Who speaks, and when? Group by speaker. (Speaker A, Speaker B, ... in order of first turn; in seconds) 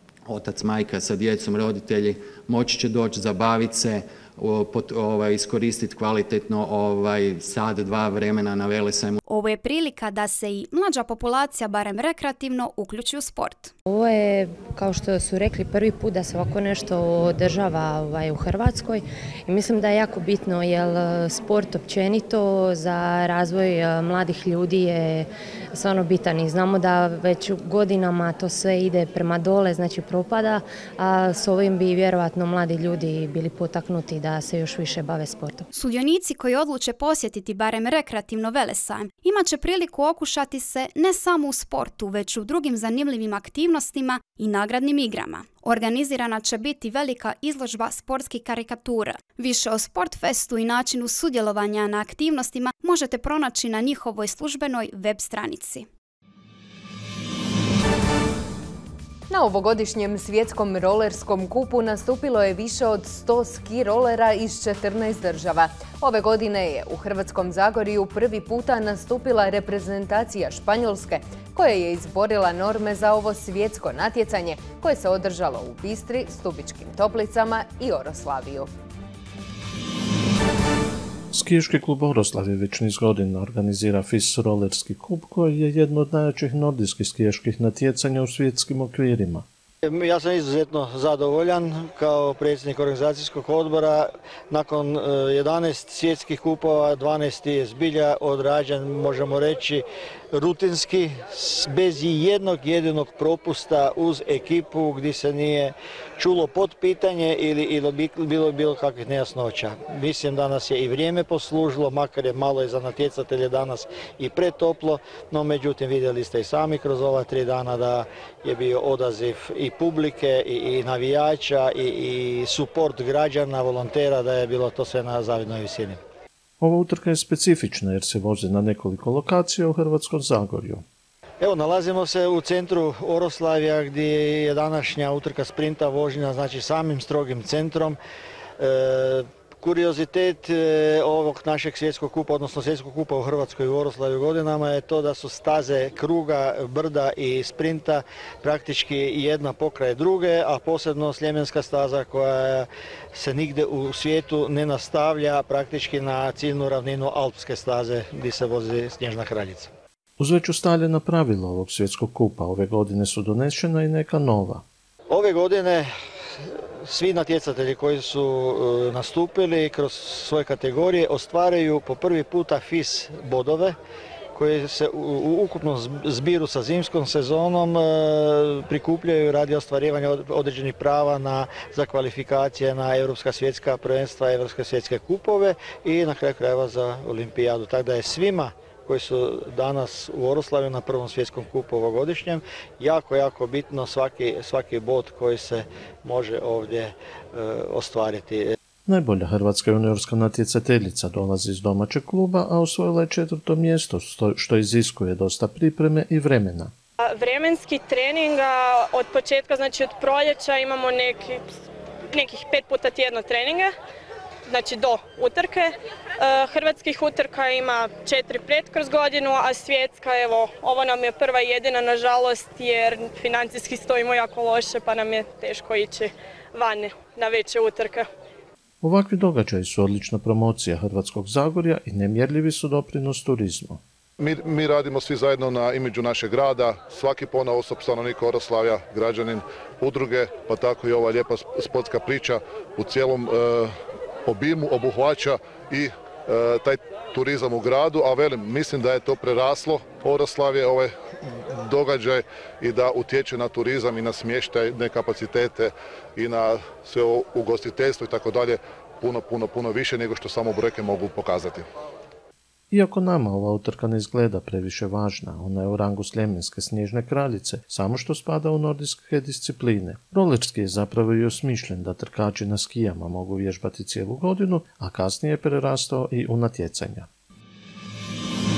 Speaker A: 0.3-9.2
Speaker B: 9.2-13.7, 35.7-55.9
Speaker C: 13.9-35.6
Speaker D: 59.3-78.7
Speaker E: 81.3-89.5, 126.6-130.8, 160.2-164.6, 198.8-206.7, 228.8-233.8, 262.7-277.1
Speaker F: 89.8-126.0, 131.4-138.0, 138.6-159.7, 165.1-165.9, 166.8-173.8, 174.3-198.5
Speaker G: 207.1-211.4, 212.1-213.7, 214.5-215.7, 216.2-228.1
Speaker H: 234.2-243.7, 244.2-261.7